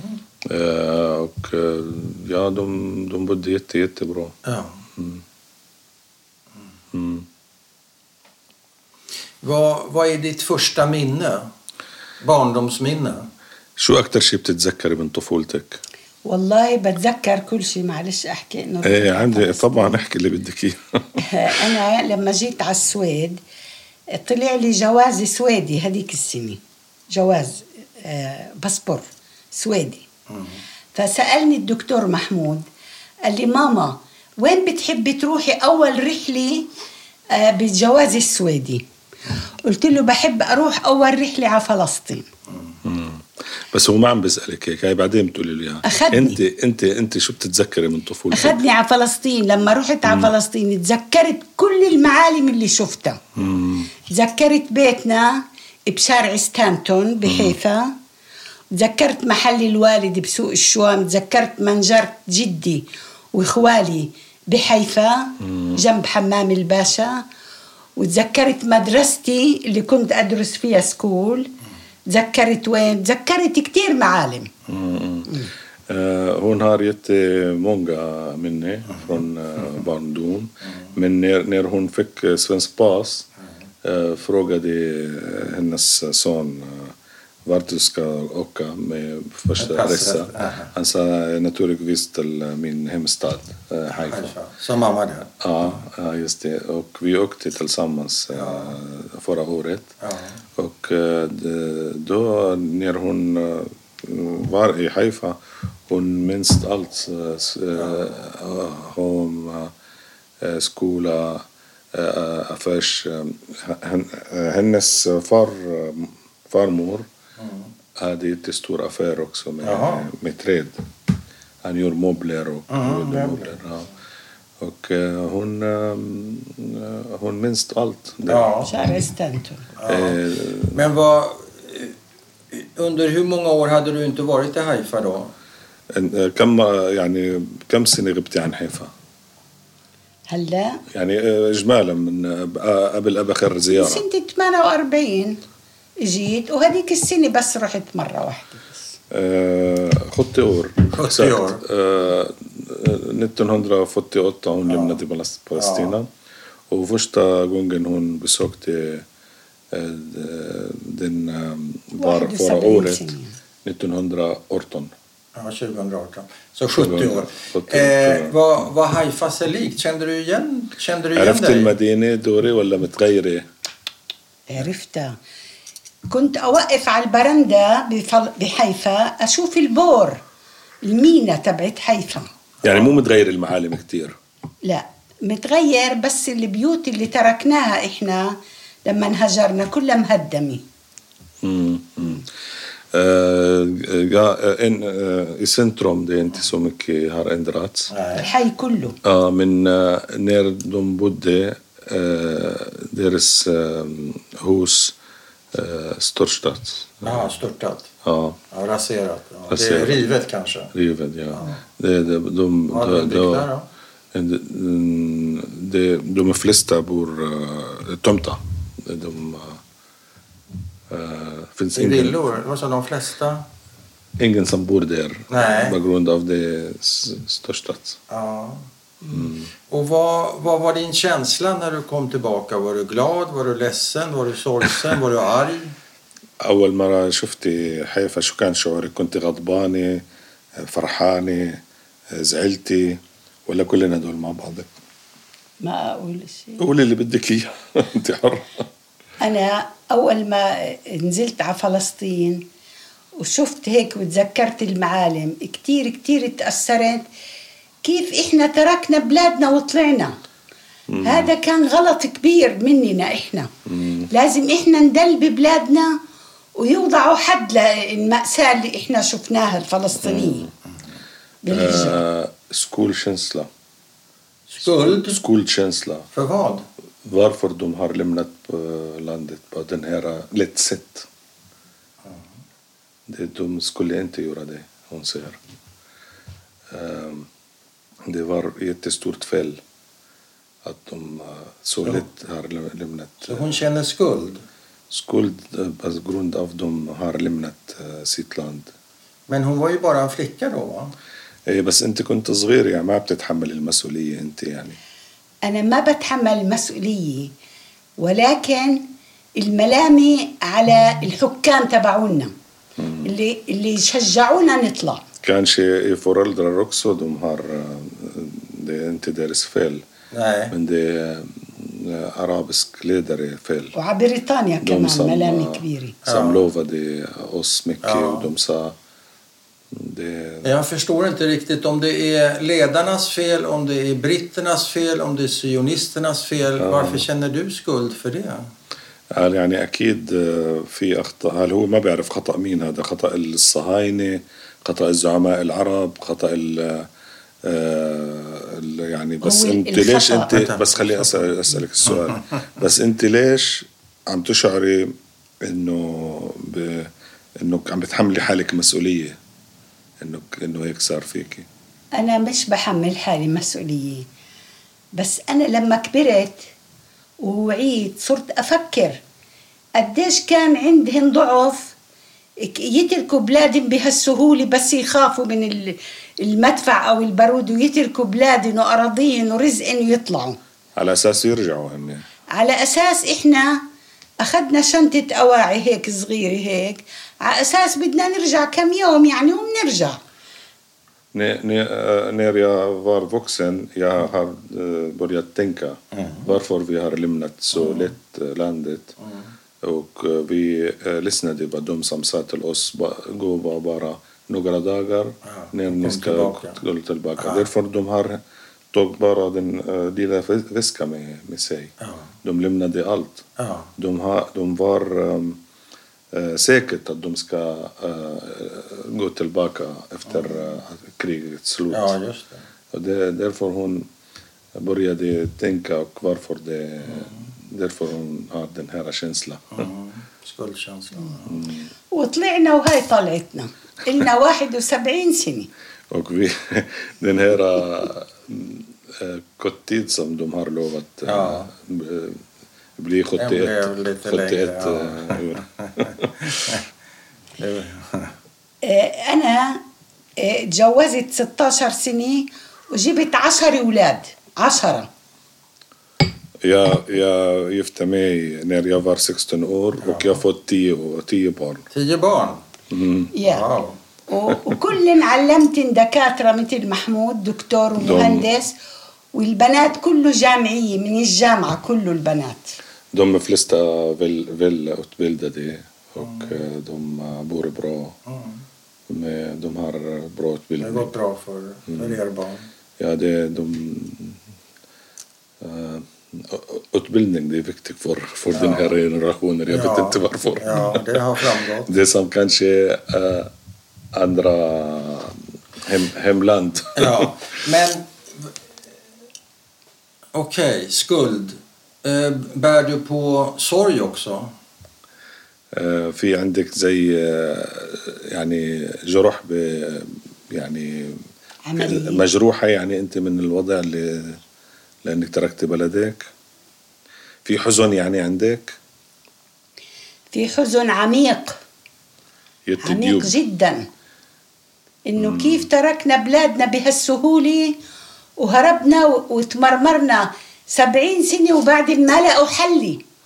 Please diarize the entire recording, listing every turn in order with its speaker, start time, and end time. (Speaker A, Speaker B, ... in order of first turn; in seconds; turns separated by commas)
Speaker A: 0.4-4.4, Speaker B: 4.5-4.8, Speaker A: 5.0-5.2, Speaker A: 6.9-7.3, Speaker B: 9.4-11.5, Speaker B: 12.2-13.3, Speaker A: 13.8-15.8, Speaker C: 16.2-20.0, Speaker A: 18.8-21.7, Speaker C: 21.2-23.4, Speaker C: 24.1-26.6, Speaker C: 27.1-30.1, Speaker B: 30.3-30.6, Speaker C: 30.9-32.7, Speaker C: 33.3-36.7, Speaker C: 37.3-38.9, Speaker C: 39.6-42.3, Speaker A: 42.8-48.6, Speaker C: 45.8-46.4, Speaker C: 48.3-53.2, Speaker A: 50.1-50.3, Speaker A: 53.4-53.9, Speaker C: 54.1-58.0, Speaker A: 57.2-57.6, Speaker C: 58.7-67.2, Speaker A: 65.4-65.8, Speaker C: 68.0-71.5, Speaker C: 72.1-74.5, Speaker A: 74.7-83.3, Speaker A: 83.8-87.0, Speaker A: 87.5-94.3, Speaker B: 89.6-90.7, Speaker B: 93.9-95.3, Speaker A: 95.4-99.9, Speaker B: 98.3-98.8, Speaker B: 100.0-100.4, Speaker A: 100.6-109.7, Speaker B: 107.8-108.1, Speaker A: 110.4-117.1, Speaker B: 117.4-117.7, Speaker A: 118.0-120.8, Speaker B: 119.6-120.1, Speaker A: 121.6-123.9, Speaker B: 122.7-123.6, Speaker A: 124.6-128.9, Speaker B: 128.3-128.8, Speaker C: 128.6-129.7, Speaker B: 129.8-130.2, Speaker A: 129.9-130.8, Speaker B: 130.7-131.9, Speaker B: 132.5-135.3, Speaker A: 135.9-138.9, Speaker C: 140.3-140.8, Speaker A: 140.9-144.0, Speaker C: 143.7-145.4, Speaker C: 146.0-148.9, Speaker A: 149.1-156.1, Speaker B: 150.9-151.6, Speaker B: 154.7-155.0, Speaker B: 155.6-156.0, Speaker A: 156.7-159.1, Speaker A: 159.7-163.1, Speaker C: 162.0-163.4, Speaker A: 163.6-164.9, Speaker B: 165.3-171.7, Speaker A: 166.8-168.4, Speaker A: 171.2-173.5, Speaker C: 174.5-175.2, Speaker C: 176.1-180.2, Speaker C: 180.8-182.3, Speaker A: 182.6-184.2, Speaker C: 184.6-190.6, Speaker A: 191.4-192.3, Speaker A: 192.9-197.9, Speaker B: 197.9-198.3, Speaker C: 198.2-199.0, Speaker A: 199.0-205.0, Speaker A: 205.5-207.3, Speaker B: 207.0-207.9, Speaker A: 208.0-208.4, Speaker B: 208.5-210.7, Speaker A: 209.5-210.1, Speaker A: 210.7-213.5, Speaker B: 211.3-211.6, Speaker B: 212.7-213.7, Speaker A: 214.1-219.6, Speaker A: 220.9-222.2, Speaker B: 221.8-223.5, Speaker A: 224.2-228.0, Speaker B: 225.3-225.8, Speaker B: 228.1-228.7, Speaker A: 229.1-229.5, Speaker B: 229.7-235.7, Speaker A: 236.4-240.0, Speaker A: 240.6-244.7, Speaker C: 245.6-246.7, Speaker A: 246.6-248.7, Speaker C: 249.2-252.4, Speaker C: 253.2-257.1, Speaker C: 257.8-260.2, Speaker A: 260.9-261.3, Speaker C: 261.0-263.5, Speaker A: 263.7-264.1, Speaker C: 264.1-266.0, Speaker C: 266.6-270.5, Speaker A: 270.0-270.5, Speaker C: 271.4-272.0, Speaker A: 271.5-273.5, Speaker B: 274.5-275.2, Speaker A: 274.6-276.1, Speaker B: 276.1-276.7, Speaker A: 277.0-281.1, Speaker A: 283.1-285.4, Speaker A: 286.7-287.3, Speaker A: 288.1-289.6, Speaker A: 290.6-293.6, Speaker B: 293.3-294.4, Speaker A: 294.9-298.7, Speaker B: 299.3-300.9, Speaker A: 301.5-304.8, Speaker C: 305.4-307.3, Speaker C: 308.0-308.9, Speaker C: 309.4-312.3, Speaker A: 312.8-313.1, Speaker C: 313.0-315.1, Speaker A: 315.2-319.9, Speaker B: 320.1-320.5, Speaker A: 320.5-323.8, Speaker C: 323.8-326.0, Speaker A: 324.6-328.8, Speaker B: 326.1-326.5, Speaker B: 327.8-328.3, Speaker A: 329.7-330.5, Speaker B: 330.4-338.5, Speaker A: 336.6-337.1, Speaker A: 339.1-346.9, Speaker A: 347.4-359.2, Speaker C: 349.2-350.4, Speaker B: 350.3-351.3, Speaker B: 351.9-352.2, Speaker A: 360.0-361.5, Speaker C: 362.0-364.1, Speaker C: 364.9-366.5, Speaker C: 367.2-369.0, Speaker C: 369.8-371.8, Speaker C: 372.4-380.4, Speaker A: 380.8-382.1, Speaker C: 382.3-383.6, Speaker C: 384.2-390.0, Speaker A: 391.1-398.9, Speaker B: 395.9-396.3, Speaker B: 397.6-397.9, Speaker B: 399.0-399.3, Speaker A: 399.6-408.2, Speaker B: 405.2-406.6, Speaker B: 407.2-407.5, Speaker A: 408.7-411.7, Speaker B: 411.8-412.1, Speaker A: 412.2-413.3, Speaker B: 413.4-413.7, Speaker A: 413.8-415.4, Speaker A: 416.1-421.9, Speaker B: 420.1-420.4, Speaker B: 421.7-422.4, Speaker A: 422.7-423.9, Speaker A: 424.6-429.7, Speaker B: 429.6-431.4, Speaker A: 431.3-431.7, Speaker C: 431.9-435.5, Speaker A: 435.9-442.2, Speaker B: 441.1-441.5, Speaker A: 442.8-446.3, Speaker B: 443.2-446.6, Speaker B: 447.4-448.1, Speaker C: 448.6-449.6, Speaker C: 450.2-454.9, Speaker A: 456.4-461.6, Speaker B: 459.8-460.2, Speaker B: 461.7-462.4, Speaker A: 462.7-463.1, Speaker C: 463.1-463.5, Speaker B: 463.2-463.8, Speaker C: 464.1-468.5, Speaker A: 467.8-468.3, Speaker C: 469.1-472.6, Speaker A: 472.9-478.0, Speaker B: 476.0-476.3, Speaker B: 478.1-478.4, Speaker A: 478.9-480.9, Speaker B: 480.6-482.5, Speaker A: 481.7-482.0, Speaker A: 482.8-484.2, Speaker A: 485.4-493.3, Speaker B: 488.3-488.8, Speaker B: 489.5-491.7, Speaker A: 493.9-497.1, Speaker B: 496.8-497.9, Speaker B: 500.1-504.3, Speaker A: 505.5-511.0, Speaker C: 511.5-512.0, Speaker A: 511.6-514.2, Speaker A: 514.8-516.1, Speaker A: 517.2-518.6, Speaker C: 520.1-521.4, Speaker A: 522.5-523.1, Speaker C: 522.6-523.7, Speaker C: 524.9-527.6, Speaker A: 525.0-525.5, Speaker C: 528.2-532.8